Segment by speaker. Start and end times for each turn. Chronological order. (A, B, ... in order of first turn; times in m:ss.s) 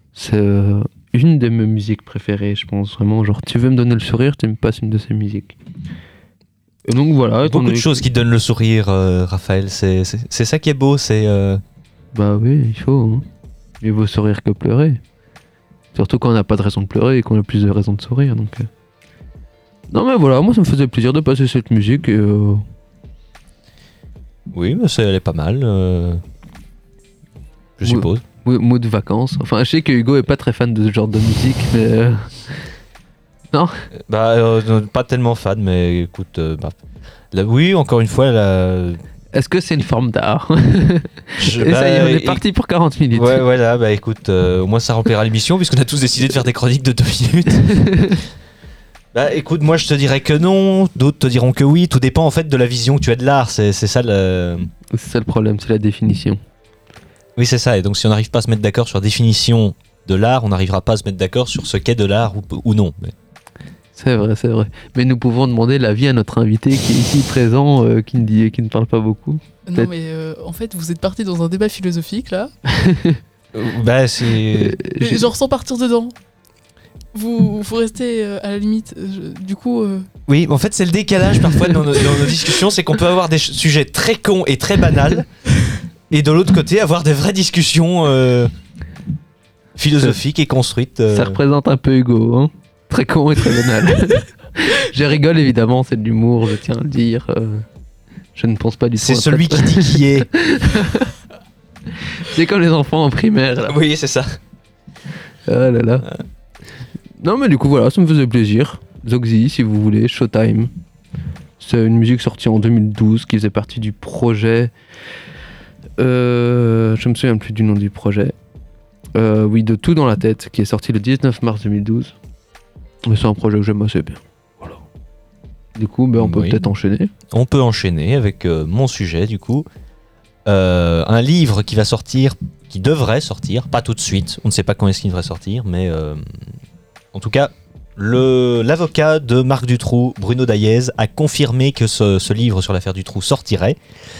0:00.1-0:05.6 A
0:06.8-0:08.0 A
0:07.4-0:11.6 B
0:12.1-0:13.2 A
0:13.8-0:15.0 A
0:15.9-0:18.7 A
0:19.9-0:22.6 A
0:24.5-0:26.2 B
0:27.8-0:28.2 B
0:27.8-0:32.5 A
0:33.5-0:33.8 A
0:34.0-0:36.8 B
0:37.3-0:39.0 B
0:39.3-0:43.4 A
0:41.4-0:42.4 B
0:43.1-0:47.9 B
0:47.8-0:48.2 A
0:49.1-0:54.7 B
0:54.9-0:56.4 A
0:57.4-1:03.1 B
1:04.0-1:09.9 A
1:09.6-1:12.5 C
1:12.7-1:13.2 A
1:13.5-1:14.8 B
1:14.6-1:15.2 A
1:15.0-1:16.1 C
1:17.1-1:20.0 C
1:20.3-1:25.3 B
1:26.1-1:28.5 B
1:29.8-1:31.4 B
1:31.1-1:37.6 A
1:38.4-1:41.1 A
1:39.0-1:40.3 B
1:42.2-1:43.8 A
1:43.7-1:44.4 B
1:45.5-1:46.0 A
1:47.2-1:50.7 A
1:51.6-1:54.7 A
1:56.0-1:58.3 A
1:59.1-2:02.1 A
2:03.0-2:04.2 A
2:05.8-2:07.1 A
2:06.2-2:06.6 B
2:07.3-2:09.6 B
2:10.4-2:16.2 B
2:17.1-2:23.8 B